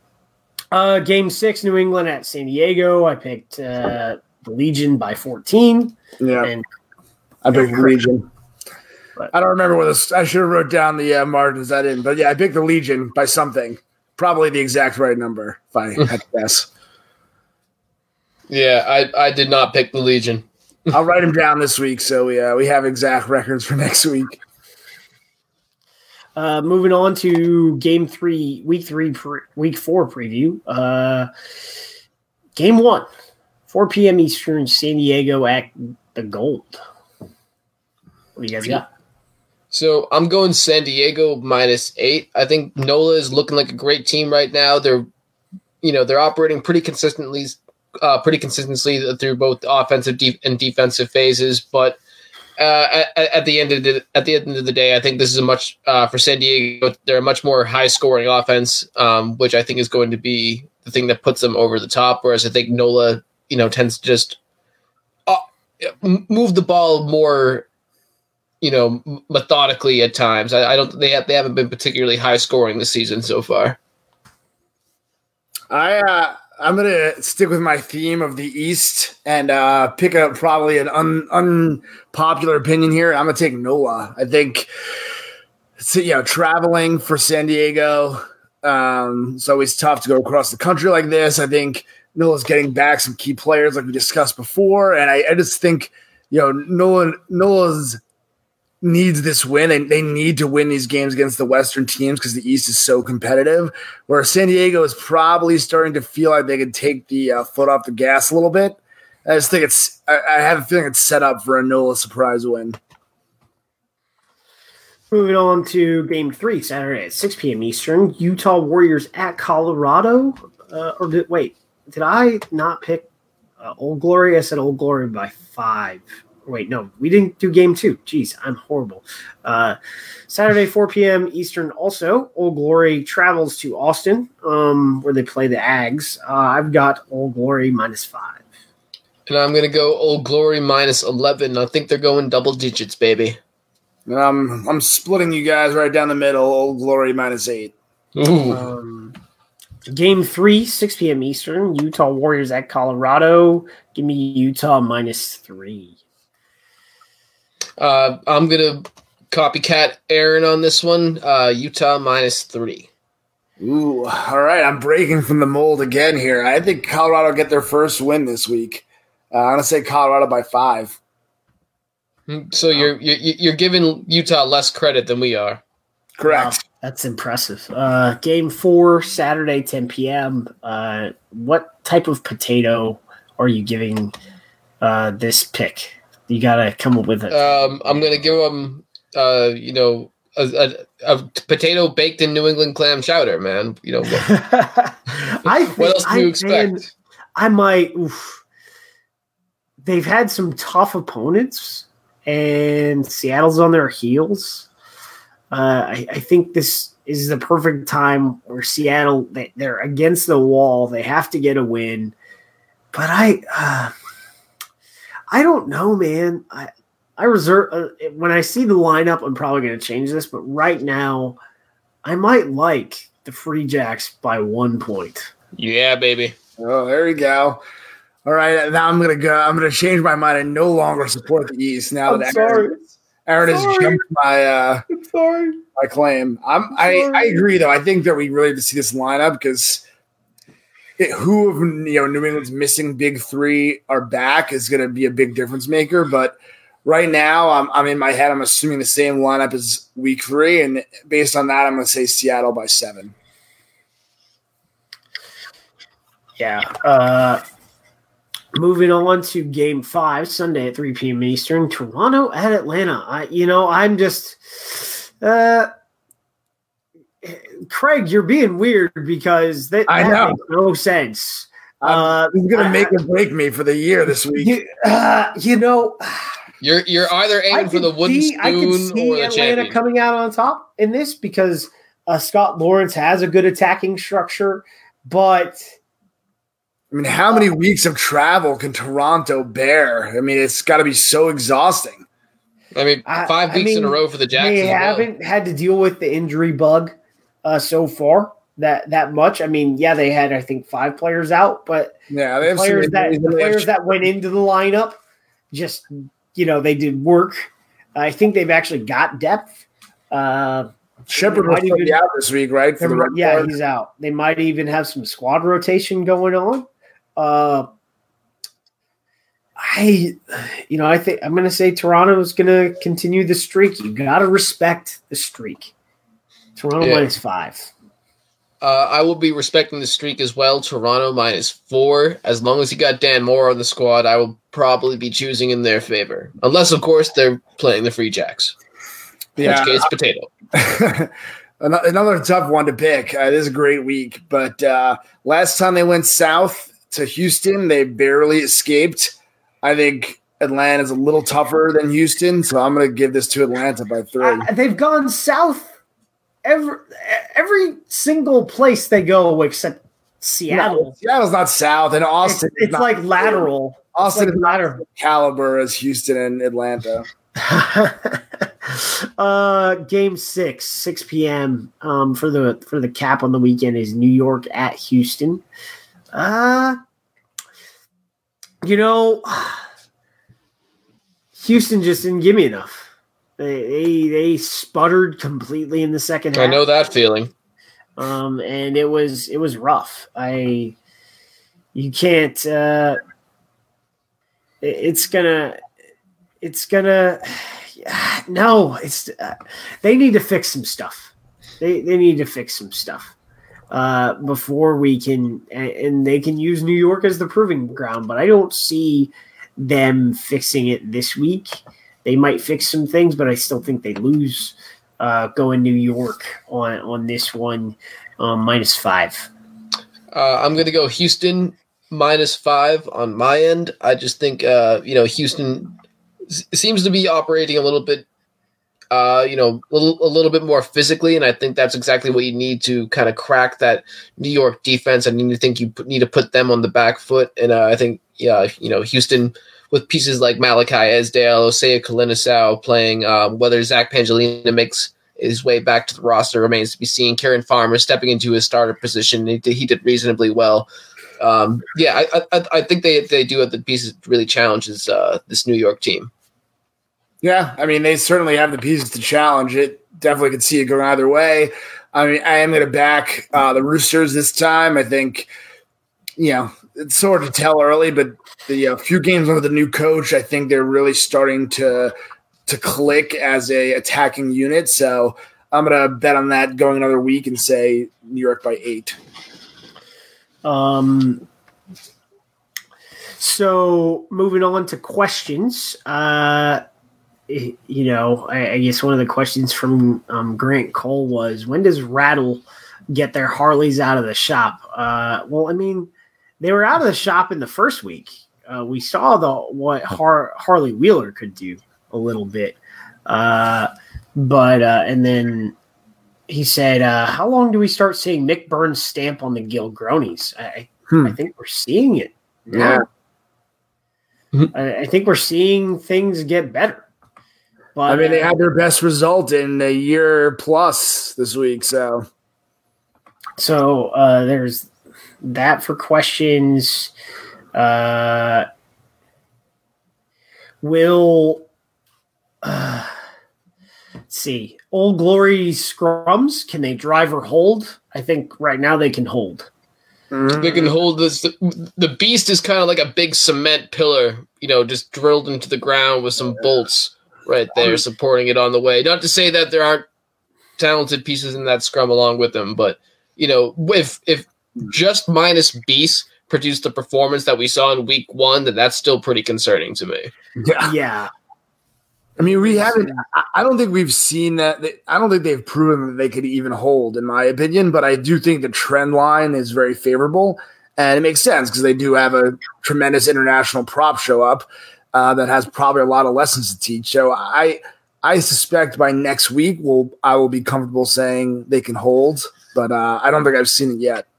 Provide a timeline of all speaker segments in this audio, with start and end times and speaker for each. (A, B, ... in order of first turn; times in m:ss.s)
0:00.7-0:06.6 A
0:06.2-0:06.5 B
0:07.4-0:08.2 B
0:07.5-0:08.0 A
0:09.3-0:16.7 B
0:18.5-0:20.4 C
0:20.9-0:24.4 B
0:26.4-0:31.3 A
0:32.6-0:33.1 A
0:33.7-0:36.8 A
0:38.4-0:38.8 A
0:39.7-0:45.0 C
0:45.8-0:52.0 C
0:52.6-1:04.4 C
1:05.3-1:07.6 C
1:08.6-1:13.8 C
1:15.7-1:24.7 B
1:25.8-1:38.0 B
1:38.8-1:52.8 B
1:55.1-2:03.1 A
2:03.6-2:09.8 A
2:10.3-2:18.4 A
2:19.3-2:23.4 C
2:24.0-2:27.7 B
2:28.1-2:28.7 C
2:28.5-2:29.2 A
2:29.9-2:36.0 A
2:37.8-2:42.9 C
2:43.6-2:51.0 B
2:52.3-2:55.6 C
2:56.2-2:56.6 B
2:56.2-3:04.1 A
3:04.8-3:07.4 A
3:07.3-3:14.3 C
3:14.1-3:18.4 A
3:15.8-3:16.8 C
3:19.8-3:24.7 A
3:25.5-3:32.1 A
3:32.9-3:33.9 A
3:35.3-3:41.4 A
3:42.0-3:45.3 A
3:45.6-3:46.3 C
3:46.6-3:47.6 B
3:48.2-3:54.8 B
3:52.0-3:52.8 A
3:53.4-3:54.0 A
3:54.9-3:55.6 A
3:55.8-3:59.8 B
3:56.7-3:57.4 A
4:01.0-4:13.1 B
4:16.4-4:17.4 A
4:18.5-4:25.7 A
4:27.2-4:33.0 A
4:29.9-4:30.4 B
4:31.8-4:34.6 B
4:34.3-4:36.4 A
4:36.6-4:39.8 C
4:37.5-4:45.6 A
4:46.9-4:52.0 B
4:52.7-4:55.1 C
4:53.0-5:05.0 A
5:02.1-5:03.7 B
5:05.5-5:09.6 A
5:10.1-5:12.0 A
5:11.1-5:13.5 B
5:12.8-5:17.7 A
5:19.6-5:25.7 A
5:26.6-5:27.7 A
5:26.8-5:27.1 C
5:28.6-5:38.5 C
5:39.4-5:39.9 B
5:39.4-5:40.3 C
5:40.5-5:54.5 B
5:54.2-5:55.7 A
5:56.4-6:00.9 A
6:00.5-6:07.1 B
6:02.2-6:04.8 A
6:07.4-6:15.4 A
6:16.1-6:16.8 A
6:18.6-6:19.6 A
6:21.4-6:26.6 A
6:26.4-6:27.3 C
6:28.0-6:30.7 A
6:31.7-6:33.0 A
6:34.6-6:35.6 A
6:36.4-6:43.1 A
6:43.7-6:59.3 A
7:00.1-7:05.8 C
7:06.3-7:08.0 C
7:08.9-7:30.7 C
7:31.2-7:36.1 C
7:37.2-7:45.3 B
7:46.2-7:51.9 B
7:52.4-7:59.0 B
8:00.4-8:01.2 A
8:03.2-8:06.6 A
8:07.3-8:25.5 A
8:26.3-8:32.8 A
8:32.5-8:32.8 B
8:34.5-8:36.8 A
8:37.7-8:38.3 A
8:37.9-8:42.1 B
8:43.4-8:44.7 A
8:45.2-8:46.9 A
8:47.5-8:48.4 A
8:50.6-8:51.4 A
8:52.4-8:52.9 A
8:54.1-8:59.5 A
9:00.1-9:00.7 B
9:00.4-9:09.8 C
9:10.6-9:20.1 C
9:20.4-9:20.7 B
9:20.6-9:21.1 A
9:22.2-9:44.0 B
9:22.2-9:23.0 A